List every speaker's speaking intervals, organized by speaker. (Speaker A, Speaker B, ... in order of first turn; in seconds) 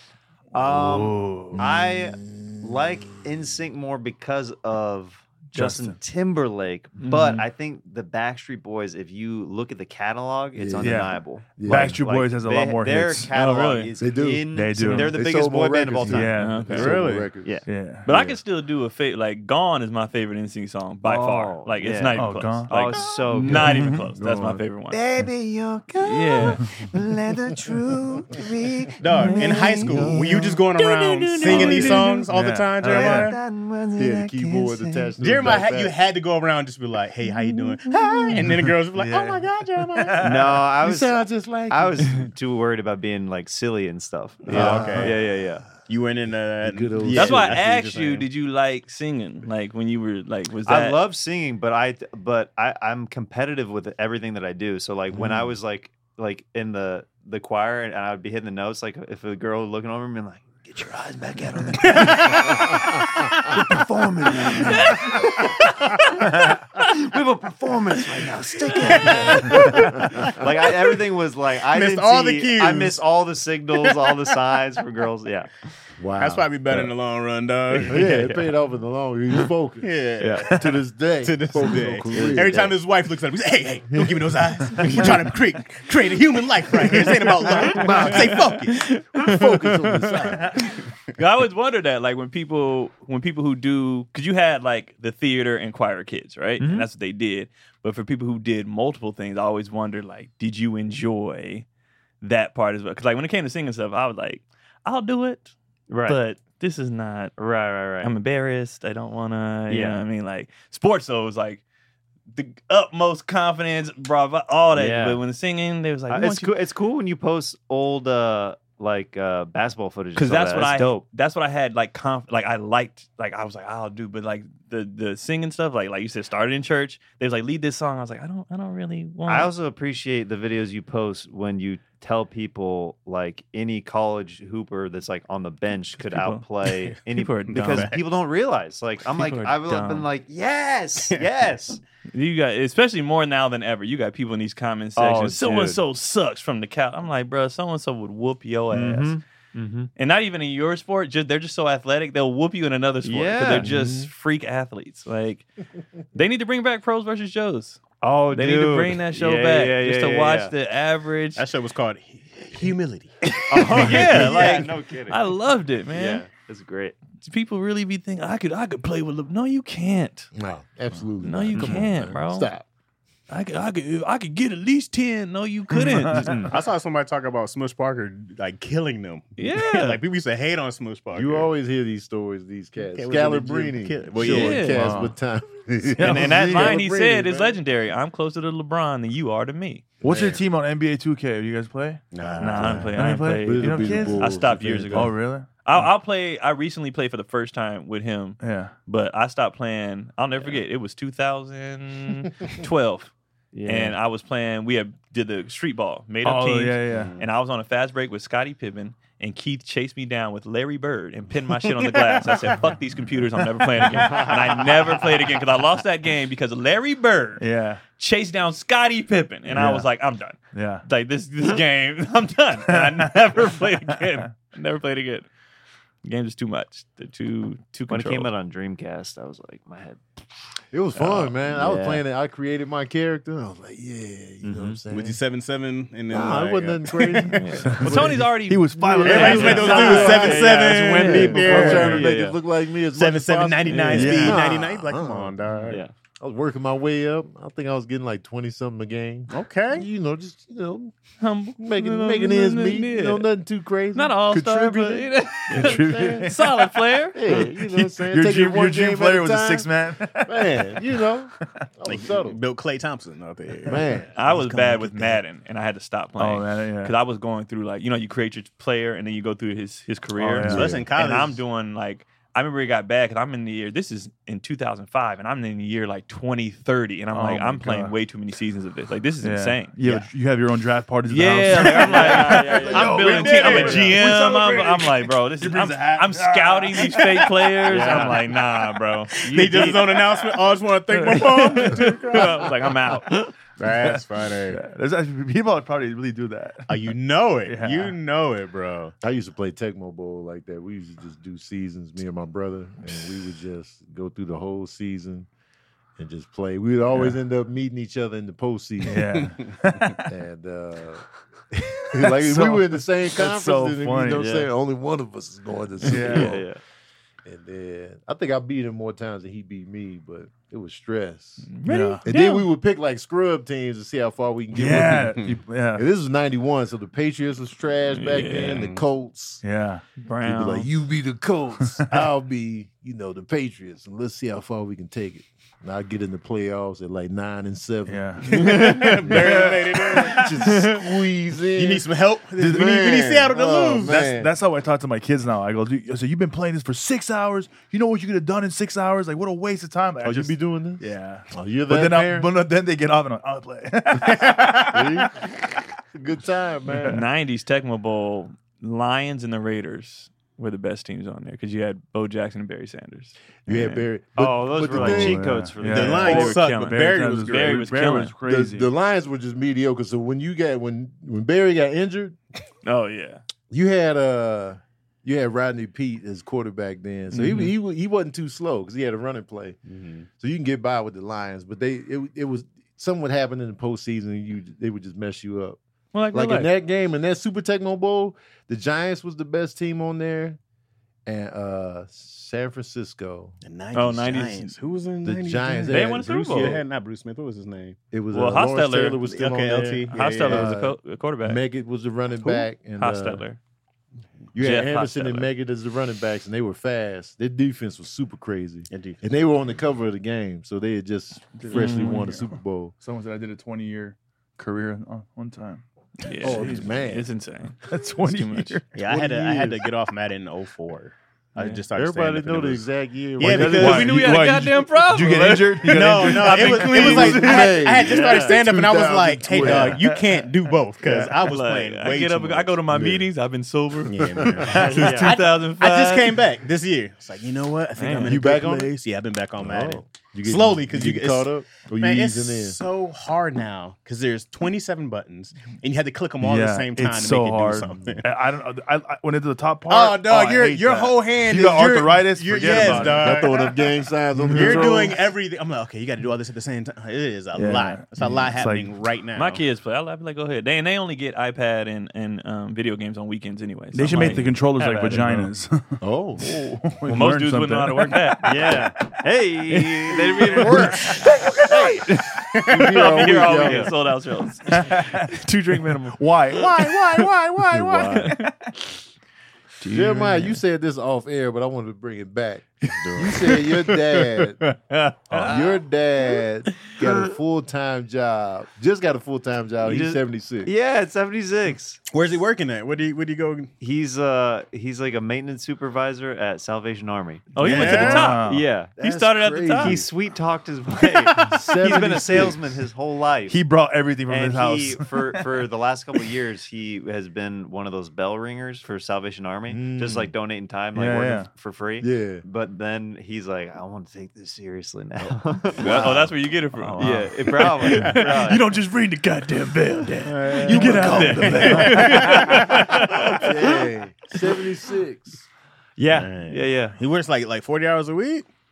Speaker A: 0.5-16.4, 21.0-23.8, 24.9-32.2, 32.8-35.1, 40.2-45.7, 50.7-75.6, 80.2-80.5, 87.7-88.3, 96.6-96.9, 105.9-106.2, 107.4-108.1, 109.7-110.0, 114.7-115.2, 116.1-121.0, 129.3-141.8, 145.0-145.8, 148.7-149.9, 153.0-153.7, 158.0-160.5, 163.5-165.3, 165.9-167.0, 203.5-204.0, 227.9-230.0, 231.6-232.0, 234.4-234.8, 239.9-242.4, 281.5-283.9, 287.7-288.2, 314.2-314.5, 315.8-316.6, 364.2-366.2, 428.0-428.4, 434.5-435.2, 464.6-465.0, 468.2-471.0, 473.2-473.7, 489.6-491.8, 493.6-498.8, 499.5-503.4, 504.1-516.0, 516.8-518.5, 525.8-526.8
Speaker B: 0.6-1.6, 5.5-6.0, 10.8-13.3, 14.5-15.2, 16.0-16.9, 17.7-18.1, 22.1-22.8, 23.3-24.1, 31.5-33.4, 38.4-40.5, 175.8-176.3, 184.7-185.1, 190.0-192.1, 192.6-194.4, 194.9-195.9, 198.4-198.7, 206.2-207.2, 217.4-217.8, 219.5-219.9, 220.5-220.9, 222.7-223.2, 237.6-240.1, 241.3-242.0, 244.0-244.4, 255.5-256.5, 257.5-261.0, 266.2-266.9, 270.2-270.8, 277.1-277.9, 279.2-288.2, 290.9-291.9, 293.6-298.0, 308.8-310.1, 312.0-314.3, 315.8-316.4, 321.6-322.0, 324.5-325.9, 329.4-329.8, 337.9-340.1, 342.4-342.8, 343.9-355.3, 356.7-357.1, 363.5-363.8, 364.7-368.7, 411.4-415.6, 417.6-418.7, 423.2-427.7, 429.3-430.2, 434.5-434.9, 446.2-453.4, 454.2-455.0, 457.3-458.7, 463.7-468.5, 474.5-475.2, 475.8-477.1, 478.1-478.3, 497.5-498.5, 503.3-505.3, 510.8-511.3, 516.6-522.6
Speaker C: 1.5-2.9, 10.6-12.0, 14.0-18.4, 24.1-24.6, 34.0-36.0, 40.8-42.1, 44.5-45.2, 46.6-47.6, 55.1-55.5, 69.0-70.4, 76.0-76.9, 77.9-82.8, 83.9-84.3, 89.2-90.8, 153.6-154.1, 170.3-172.7, 181.1-187.6, 190.0-190.4, 192.4-195.2, 230.7-235.2, 236.1-238.2, 238.8-245.4, 246.2-250.9, 251.6-256.4, 257.1-262.4, 263.7-264.2, 270.4-270.9, 299.0-305.3, 306.0-309.3, 310.1-316.4, 317.2-321.5, 322.1-325.2, 325.8-329.4, 330.2-341.9, 342.4-344.3, 350.0-352.3, 354.7-355.3, 355.9-357.0, 363.5-365.3, 368.2-372.2, 373.5-379.6, 380.2-385.6, 386.1-390.4, 391.1-393.4, 395.0-396.6, 397.9-403.2, 404.3-412.7, 416.2-417.1, 418.8-419.7, 421.7-424.0, 426.3-429.9, 432.7-433.1, 438.0-438.8, 439.4-442.6, 452.4-455.0, 465.8-466.5, 470.4-473.7, 477.4-478.2, 479.7-484.4, 485.1-490.5, 498.8-499.9, 501.1-502.4, 509.5-510.1, 511.8-512.2, 515.0-515.9, 520.4-521.0, 523.2-525.2
Speaker D: 7.0-7.5, 13.3-13.9, 16.4-16.9, 18.1-25.0, 26.0-26.6, 29.2-30.1, 31.5-32.0, 47.1-51.0, 64.6-65.1, 87.9-90.6, 91.2-101.7, 102.2-105.5, 106.1-107.4, 108.0-111.6, 112.3-116.5, 120.2-129.5, 136.0-136.4, 137.1-138.0, 139.1-140.1, 142.1-149.2, 150.0-155.5, 156.1-161.4, 163.3-166.3, 167.2-170.3, 171.2-172.5, 173.3-176.5, 179.4-180.0, 184.2-184.8, 186.0-189.8, 192.4-203.1, 203.7-217.4, 218.0-225.3, 226.0-228.3, 230.9-231.4, 237.5-241.9, 243.7-244.4, 251.2-253.3, 253.9-257.5, 264.1-279.8, 281.1-290.1, 291.1-293.3, 321.5-322.5, 327.9-328.7, 330.0-330.7, 356.9-363.6, 365.8-368.1, 372.6-373.2, 377.1-377.5, 385.9-386.5, 393.7-394.6, 395.7-396.6, 398.1-399.0, 399.9-401.4, 402.2-403.4, 404.4-405.3, 411.5-412.1, 416.0-418.6, 423.4-426.8, 430.9-436.2, 437.8-438.2, 459.2-465.0, 466.9-468.6, 469.8-470.9, 471.9-476.0, 479.6-480.4, 485.1-485.6, 497.3-499.8, 515.6-517.0, 520.8-523.3
Speaker E: 16.6-17.3, 29.0-33.4, 35.2-40.3, 44.5-45.1, 45.9-48.3, 61.8-62.7, 68.8-71.0, 71.7-73.0, 73.8-74.1, 76.2-78.3, 79.8-80.7, 81.2-89.0, 136.7-136.9, 137.5-138.0, 161.4-163.9, 176.4-181.5, 182.9-184.8, 192.1-192.9, 206.9-207.2, 211.8-212.6, 234.9-238.2, 239.0-242.1, 242.9-245.8, 249.3-249.9, 261.9-265.2, 270.4-271.4, 282.5-283.9, 287.7-288.2, 289.2-292.6, 293.6-294.6, 296.7-298.9, 309.1-310.0, 324.9-325.4, 328.4-328.8, 338.3-340.3, 341.6-344.0, 365.7-367.7, 379.7-380.1, 393.4-397.8, 399.1-400.5, 408.7-409.0, 418.7-422.7, 423.2-424.3, 425.7-432.6, 433.9-448.1, 449.7-453.6, 454.3-459.4, 470.1-471.0, 472.4-472.7, 476.8-477.9, 482.8-484.8, 491.9-493.5, 497.4-498.2, 520.0-522.8, 525.9-528.3